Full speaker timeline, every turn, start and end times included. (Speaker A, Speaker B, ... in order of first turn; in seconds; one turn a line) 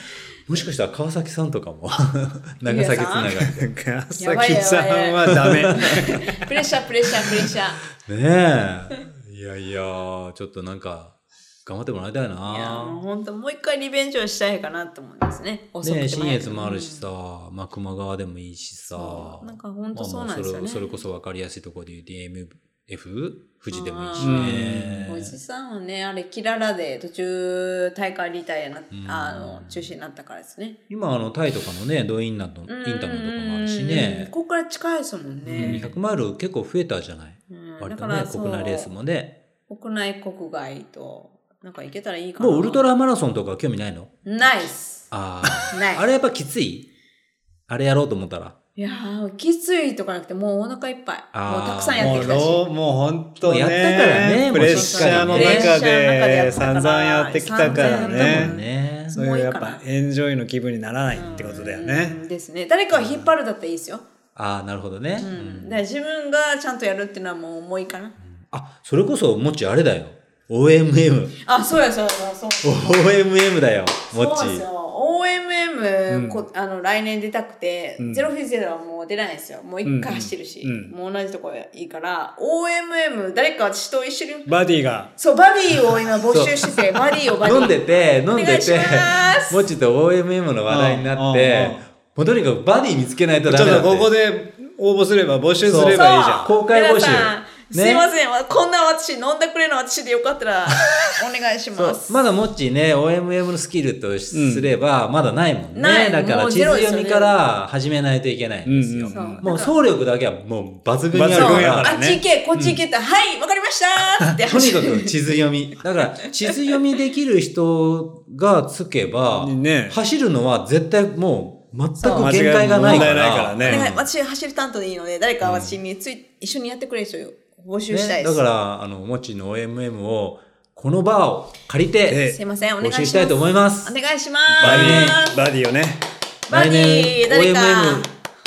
Speaker A: 0.5-3.6
Speaker B: 2.6-3.4
Speaker C: 3.5-6.4
Speaker B: 4.2-7.8
Speaker A: 5.5-5.9
Speaker A: 8.0-13.0
Speaker B: 12.5-17.1
Speaker A: 15.8-25.4
Speaker B: 18.9-20.9
Speaker B: 23.7-30.8
Speaker C: 24.2-25.1
Speaker A: 28.9-29.9
Speaker A: 30.9-34.3
Speaker B: 32.7-35.9
Speaker A: 35.5-39.3
Speaker C: 35.5-35.9
Speaker B: 37.5-38.9
Speaker B: 39.7-42.9
Speaker A: 42.4-44.1
Speaker B: 44.2-46.0
Speaker A: 45.1-46.9
Speaker A: 47.7-48.5
Speaker B: 48.8-52.6
Speaker A: 51.3-52.5
Speaker C: 52.0-58.5
Speaker A: 53.4-55.8
Speaker B: 54.6-59.8
Speaker A: 57.6-59.1
Speaker C: 59.1-62.1
Speaker B: 61.1-64.0
Speaker A: 61.2-61.7
Speaker A: 64.3-65.8
Speaker B: 65.2-68.1
Speaker A: 68.4-71.3
Speaker B: 71.4-73.2
Speaker A: 72.6-74.6
Speaker B: 74.1-84.5
Speaker C: 76.1-76.4
Speaker C: 78.0-78.3
Speaker C: 79.8-80.9
Speaker C: 84.5-85.1
Speaker B: 85.2-89.7
Speaker A: 86.3-86.7
Speaker A: 87.4-94.1
Speaker C: 90.7-91.8
Speaker C: 93.5-96.5
Speaker A: 95.6-98.0
Speaker B: 95.9-102.2
Speaker A: 101.7-112.0
Speaker C: 104.3-104.7
Speaker B: 105.7-107.3
Speaker C: 108.6-109.4
Speaker B: 109.1-109.7
Speaker C: 111.1-112.2
Speaker B: 111.3-115.1
Speaker A: 112.5-112.8
Speaker A: 114.4-124.0
Speaker C: 119.4-120.0
Speaker B: 122.0-128.4
Speaker C: 122.0-123.8
Speaker A: 125.4-125.8
Speaker A: 127.9-133.9
Speaker C: 132.1-132.4
Speaker B: 132.3-135.4
Speaker A: 134.6-135.2
Speaker C: 134.6-136.0
Speaker B: 136.5-138.1
Speaker A: 136.5-138.1